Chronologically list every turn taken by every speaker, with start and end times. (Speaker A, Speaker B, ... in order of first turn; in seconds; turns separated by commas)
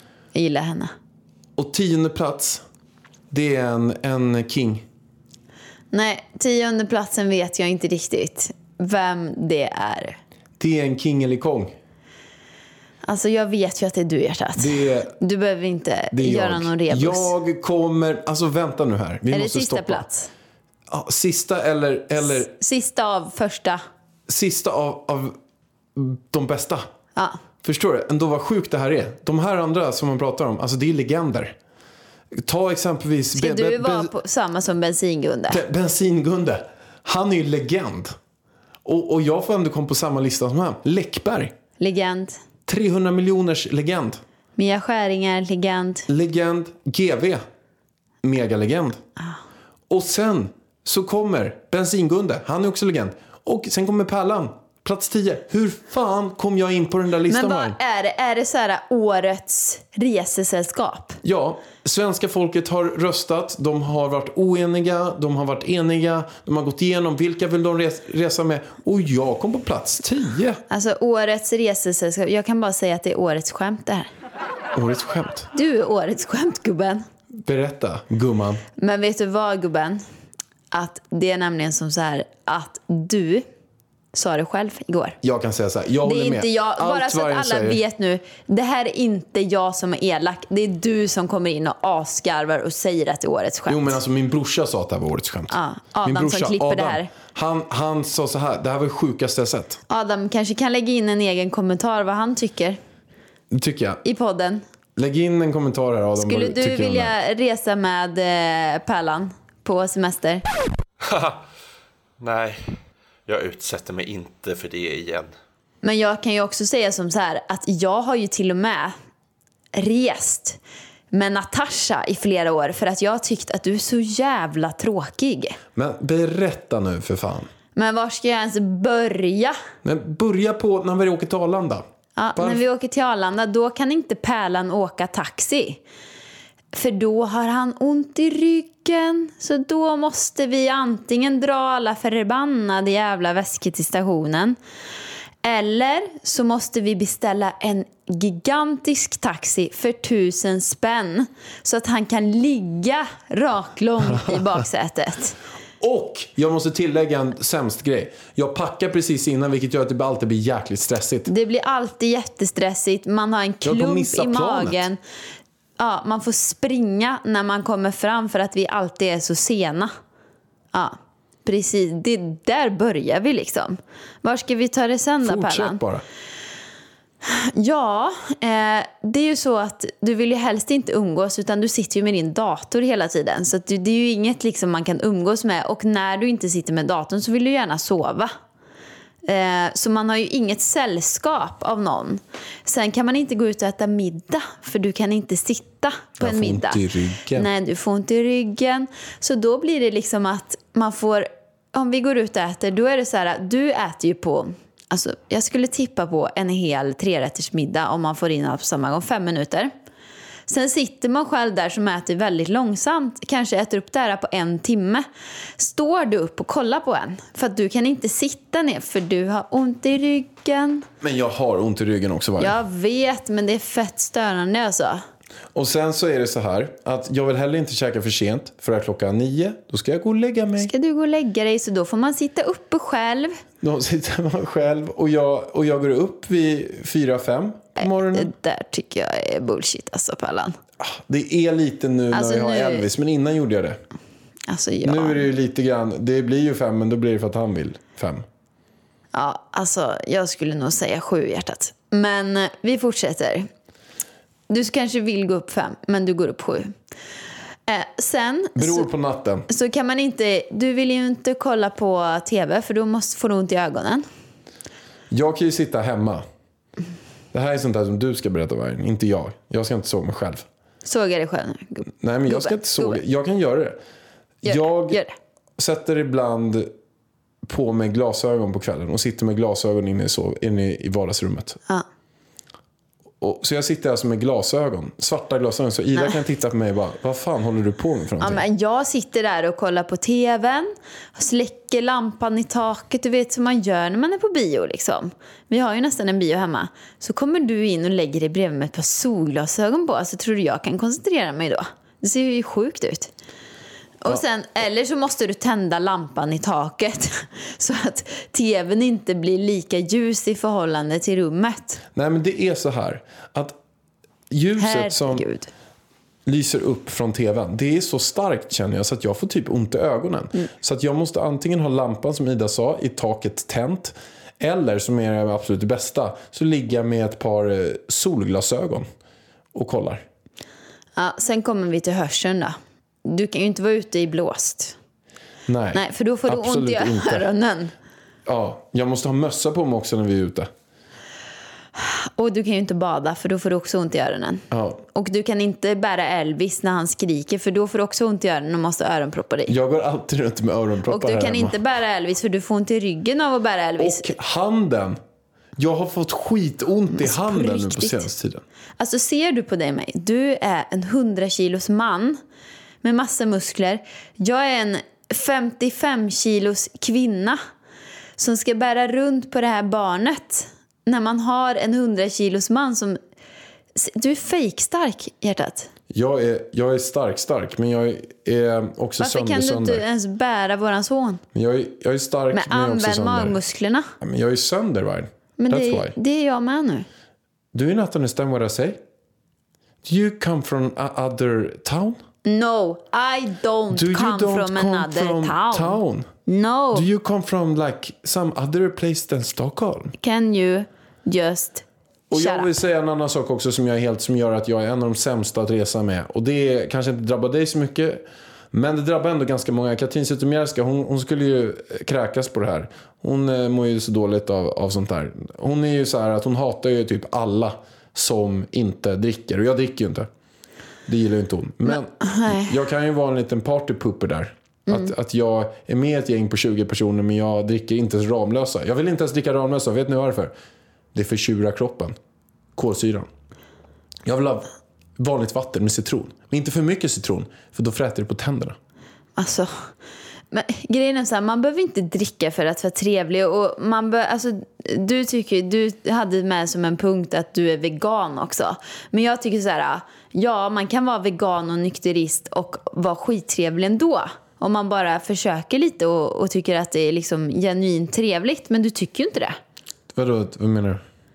Speaker A: 0.3-0.9, Speaker B: 1.6-2.6, Speaker B: 3.3-4.8, Speaker A: 5.9-10.2, Speaker B: 10.6-11.7, Speaker A: 13.0-17.3, Speaker B: 14.6-15.1, Speaker B: 16.1-20.1, Speaker A: 19.3-20.3, Speaker B: 20.9-22.5, Speaker A: 22.2-23.8, Speaker B: 24.3-25.4, Speaker B: 25.9-26.9, Speaker B: 27.6-31.5, Speaker B: 32.4-34.1, Speaker A: 33.3-35.6, Speaker B: 35.5-38.1, Speaker B: 38.8-41.5, Speaker A: 41.8-42.4, Speaker B: 42.7-44.2, Speaker A: 44.6-46.1, Speaker B: 46.1-47.4, Speaker B: 48.2-49.0, Speaker B: 49.9-57.8, Speaker A: 57.3-61.2, Speaker B: 61.2-70.6, Speaker A: 70.7-74.1, Speaker B: 74.7-75.5, Speaker A: 75.5-77.0, Speaker B: 77.4-78.6, Speaker A: 78.8-80.0, Speaker A: 80.7-83.5, Speaker A: 84.1-85.2, Speaker B: 85.2-87.8, Speaker A: 86.0-94.0, Speaker B: 93.7-99.8, Speaker A: 95.5-97.1, Speaker A: 99.9-102.8, Speaker B: 103.5-104.0, Speaker A: 104.0-104.6, Speaker B: 105.0-107.1, Speaker A: 106.2-110.4, Speaker C: 112.2-112.6, Speaker C: 113.3-115.3, Speaker A: 115.8-118.9, Speaker A: 119.7-120.6, Speaker A: 121.1-125.6, Speaker B: 125.7-127.5, Speaker A: 127.7-129.6, Speaker B: 129.8-131.8, Speaker A: 132.2-135.8, Speaker B: 132.3-132.6, Speaker A: 136.7-144.6, Speaker A: 145.4-155.4, Speaker B: 155.8-161.3, Speaker A: 161.3-165.0, Speaker B: 163.6-164.9, Speaker A: 165.8-169.9, Speaker A: 170.7-175.8, Speaker B: 175.2-176.0, Speaker A: 177.2-188.3, Speaker A: 189.2-209.7, Speaker B: 196.2-197.5, Speaker A: 210.5-215.0, Speaker A: 215.6-220.9, Speaker B: 221.0-222.6, Speaker A: 222.4-225.0, Speaker B: 225.5-230.7, Speaker A: 230.6-233.4, Speaker B: 233.6-238.3, Speaker A: 237.8-240.6, Speaker B: 240.8-243.8, Speaker A: 242.1-242.9, Speaker A: 244.5-245.3, Speaker B: 244.8-248.2, Speaker A: 249.1-253.5, Speaker A: 254.5-256.7, Speaker A: 257.7-258.9, Speaker B: 258.6-259.5, Speaker A: 259.5-264.1, Speaker B: 265.1-266.2, Speaker B: 267.3-270.4, Speaker A: 270.8-273.0, Speaker B: 272.0-273.8, Speaker B: 274.4-275.0, Speaker A: 274.4-275.1, Speaker B: 275.6-276.7, Speaker B: 277.4-281.6, Speaker B: 283.2-288.4, Speaker A: 288.2-303.1, Speaker A: 304.0-311.8, Speaker B: 311.9-313.6, Speaker B: 314.3-315.2, Speaker A: 314.6-315.5, Speaker B: 316.2-328.9, Speaker B: 329.5-330.0, Speaker A: 330.9-334.8, Speaker B: 335.5-337.3, Speaker A: 335.7-337.7, Speaker B: 338.2-340.5, Speaker A: 341.8-349.5, Speaker B: 344.5-344.8, Speaker B: 349.5-351.6, Speaker A: 350.9-354.1, Speaker B: 353.8-355.0, Speaker B: 355.6-358.4, Speaker A: 356.9-358.1, Speaker A: 358.8-362.2, Speaker A: 362.8-367.4, Speaker A: 368.2-373.0, Speaker A: 373.7-375.7, Speaker B: 375.9-379.8, Speaker A: 379.0-381.2, Speaker B: 381.3-383.4, Speaker A: 382.3-383.9, Speaker B: 384.0-385.9, Speaker A: 385.4-386.9, Speaker B: 387.5-388.8, Speaker B: 389.8-392.0, Speaker A: 392.2-396.9, Speaker B: 393.7-396.1, Speaker B: 396.7-399.9, Speaker A: 400.0-402.5, Speaker B: 402.1-420.1, Speaker B: 420.9-430.3, Speaker A: 421.7-422.5, Speaker B: 430.9-431.9, Speaker B: 432.6-433.1, Speaker B: 434.0-438.6, Speaker A: 439.2-439.6, Speaker A: 440.3-459.4, Speaker B: 459.9-460.8